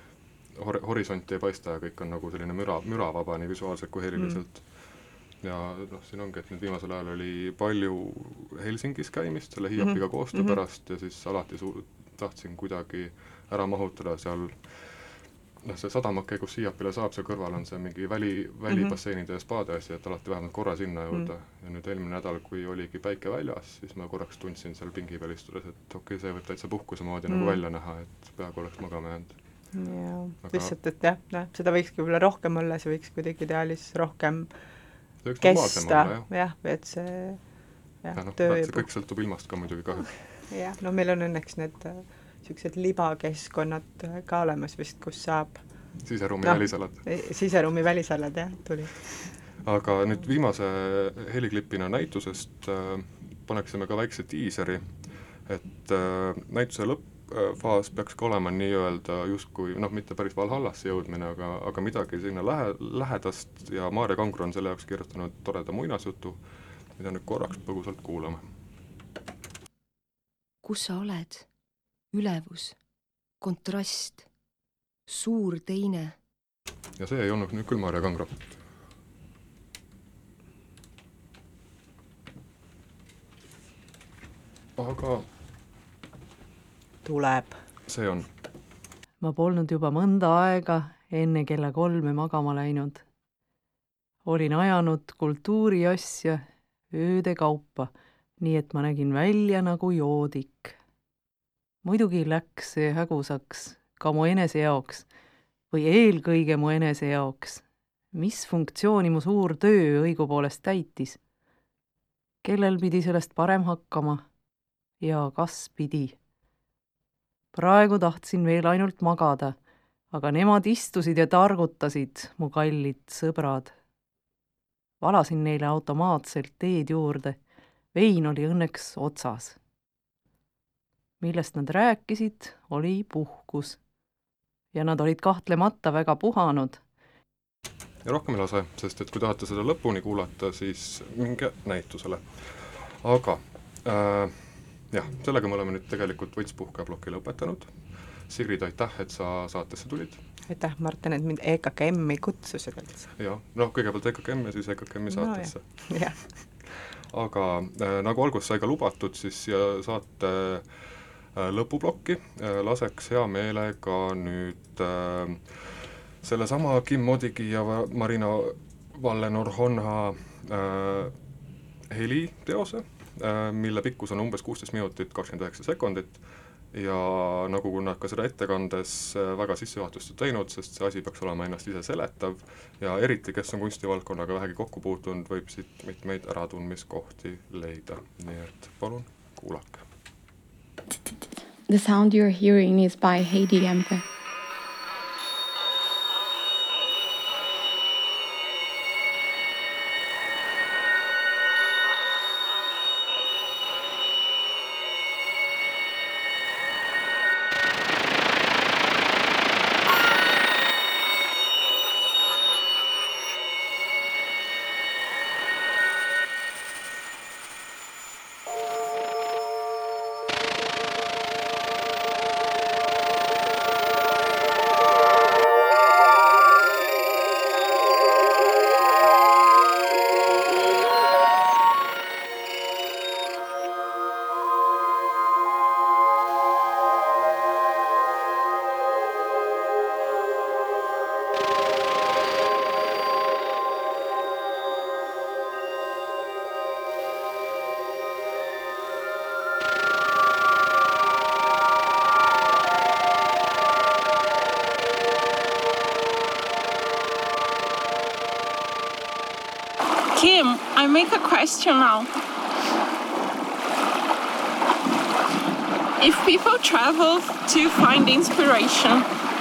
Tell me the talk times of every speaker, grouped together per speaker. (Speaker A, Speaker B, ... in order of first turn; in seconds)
Speaker A: 0.5-29.6, 30.4-30.7, 35.2-36.3, 38.1-40.4, 46.0-47.1, 49.6-66.4, 66.9-68.5, 77.0-78.5, 84.8-85.3, 87.9-88.3, 138.0-150.2, 153.2-171.2, 171.9-189.8
Speaker B: 9.8-10.6, 18.7-18.9, 27.3-27.6, 29.7-34.5, 35.4-37.5, 38.0-38.9, 40.5-45.6, 46.4-49.1, 87.0-87.6, 150.5-153.1, 155.1-156.2
Speaker C: 70.6-71.5, 72.1-72.8, 73.4-74.2, 75.1-76.1
Speaker D: 89.2-93.0, 94.2-100.8, 101.8-105.1, 105.7-111.2, 112.4-114.2, 115.0-116.2, 117.5-119.5, 120.1-123.8, 125.0-127.4, 127.9-129.6, 131.2-133.8, 134.7-136.8
Speaker E: 191.7-194.0
Speaker F: 260.1-262.1, 266.0-269.1